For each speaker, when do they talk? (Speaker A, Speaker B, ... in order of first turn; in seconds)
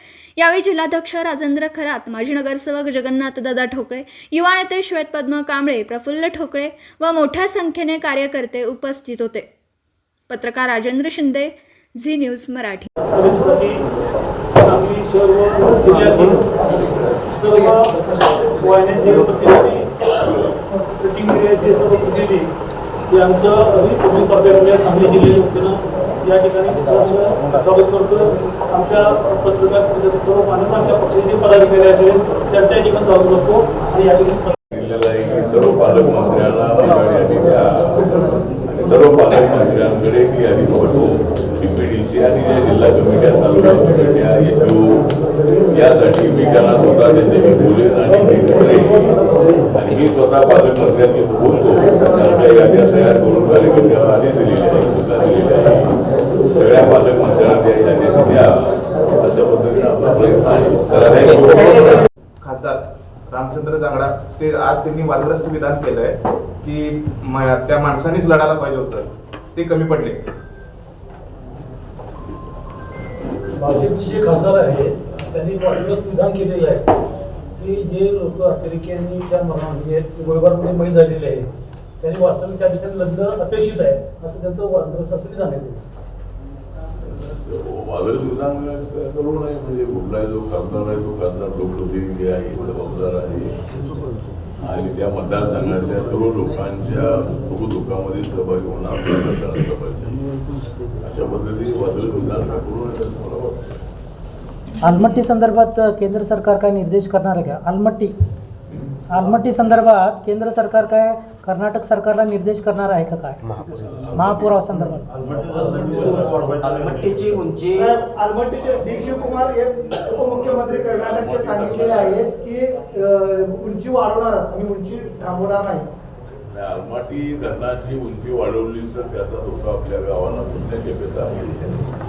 Speaker A: 0.4-9.4, 10.3-12.8
Speaker B: 13.1-13.8, 14.6-16.6, 17.3-19.9, 20.7-22.5, 23.1-34.6, 73.5-76.8, 77.5-81.5, 82.0-85.9, 115.5-115.9
Speaker C: 34.7-45.1, 45.7-62.0, 87.0-93.5, 94.6-100.2, 101.0-103.8, 120.2-122.3, 126.5-131.9
Speaker D: 62.4-70.2
Speaker E: 104.8-108.1, 109.1-113.4, 114.2-115.2
Speaker F: 115.5-117.9
Speaker G: 117.8-125.9